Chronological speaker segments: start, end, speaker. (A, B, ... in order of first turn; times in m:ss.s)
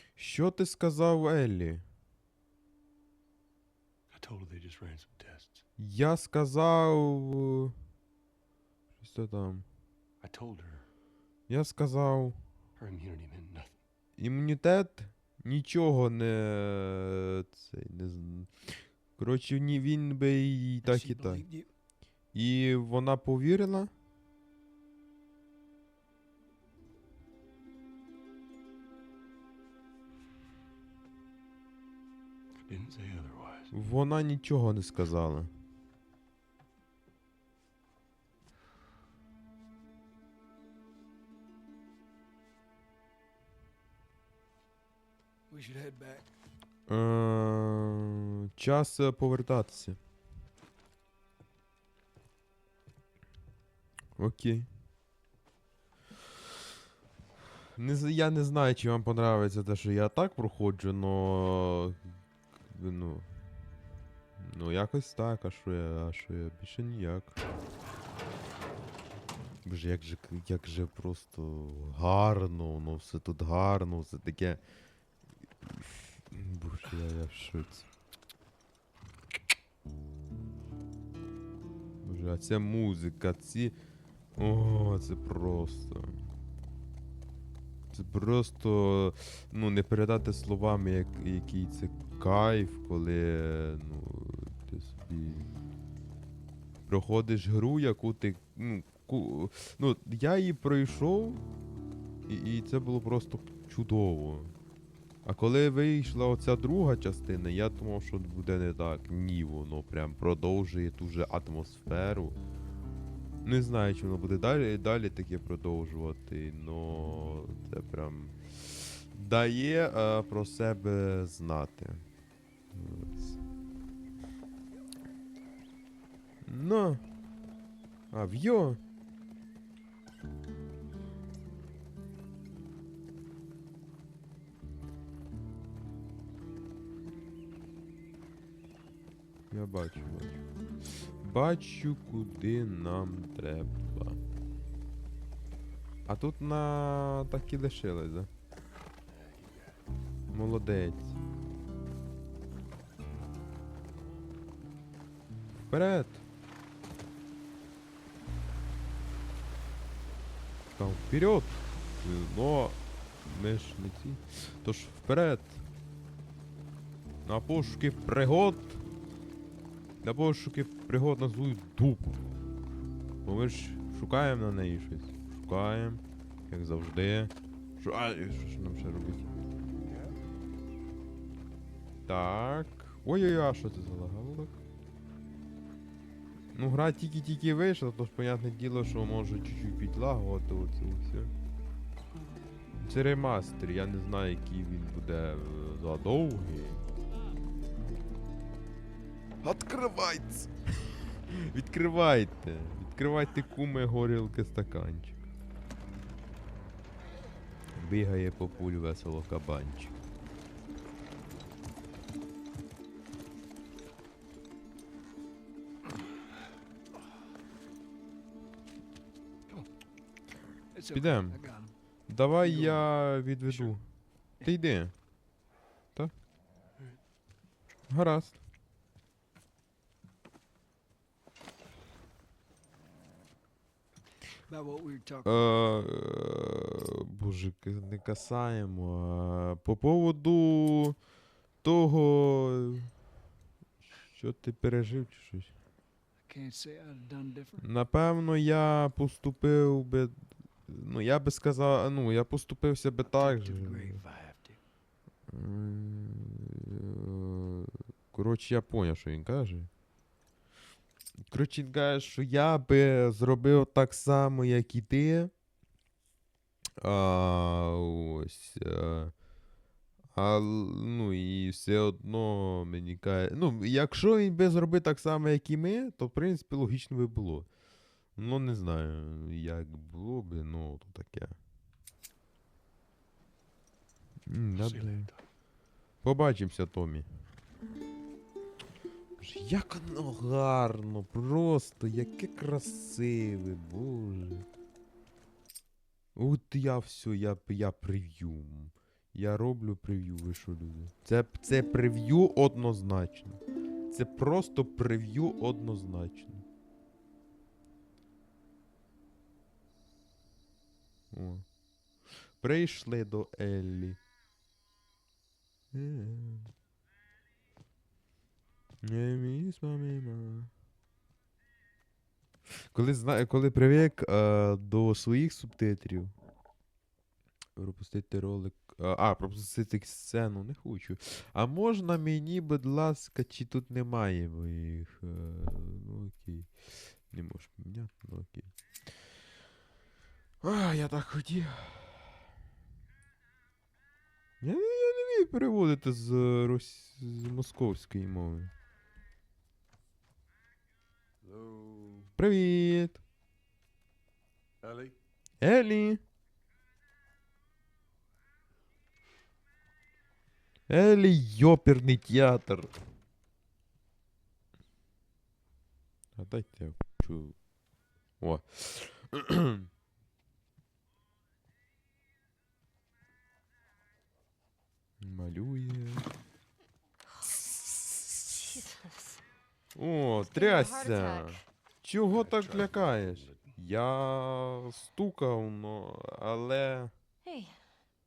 0:00.2-0:01.8 A
0:04.1-0:05.6 B
0:05.8-0:07.8 A
0:09.0-0:09.6 A
0:10.2-0:10.9 B
0:11.5-0:12.4 A
0:12.8-0:13.8 B
0:14.2-0:21.5 A
0:20.8-0:21.7 B
0:22.3-0:23.9 A
0:32.6-0:33.7 B
0:33.7-0:35.5 A
0:45.5-0:46.3 B
0:46.9-0:50.0 A
0:54.2-0:54.7 A
0:57.8-1:02.0 A
1:02.7-1:03.3 A
1:04.4-1:07.4 A
1:09.6-1:14.6 A
1:15.6-1:17.9 A
1:22.0-1:23.8 A
1:24.4-1:26.2 A
1:27.9-1:35.5 A
1:36.9-1:41.4 A
1:42.3-1:44.5 A
1:45.2-1:52.4 A
1:53.4-2:02.0 A
2:02.7-2:03.4 A
2:06.4-2:07.0 A
2:08.1-2:08.8 A
2:19.5-2:20.4 A
2:21.0-2:24.2 A
2:26.1-2:28.3 A
2:29.1-2:29.8 B
2:30.3-2:31.2 A
2:35.7-2:36.2 A
2:40.8-2:45.6 A
2:47.2-2:48.8 A
2:50.0-2:52.2 A
2:53.2-2:59.3 A
2:59.9-3:00.1 B
3:02.1-3:04.6 A
3:06.6-3:11.3 A
3:12.8-3:16.8 A
3:19.4-3:25.2 A
3:27.8-3:29.9 A
3:40.7-3:41.7 B
3:40.9-3:41.4 A
3:42.1-3:45.0 A
3:42.4-3:42.9 B
3:43.5-3:43.8 B
3:47.9-3:48.4 A
3:54.5-3:55.4 B
3:55.2-4:01.0 A
4:01.6-4:02.9 A
4:04.1-4:05.5 A
4:06.3-4:07.7 B
4:07.6-4:14.0 A
4:13.1-4:14.6 B
4:15.3-4:19.7 A
4:21.3-4:25.3 A
4:26.8-4:29.1 A
4:30.2-4:37.5 A
4:38.2-4:41.4 A
4:44.3-4:45.1 A
4:44.6-4:45.2 B
4:46.0-4:47.1 A
4:49.2-4:54.5 A
4:56.2-5:06.4 A
5:11.1-5:11.4 A
5:12.2-5:14.0 A
5:15.7-5:16.5 A
5:18.8-5:20.5 A
5:22.5-5:26.1 A
5:27.6-5:38.5 A
5:40.4-5:42.1 A
5:44.4-5:48.5 A
5:51.2-5:52.1 B
5:52.2-5:53.0 A
5:54.6-5:55.0 B
5:55.4-5:56.0 A
6:00.7-6:02.7 A
6:06.2-6:07.4 A
6:08.2-6:09.7 A
6:15.0-6:16.1 A
6:17.5-6:18.4 A
6:18.3-6:19.2 C
6:19.8-6:26.9 A
6:20.2-6:21.4 C
6:22.0-6:23.6 B
6:27.2-6:27.6 C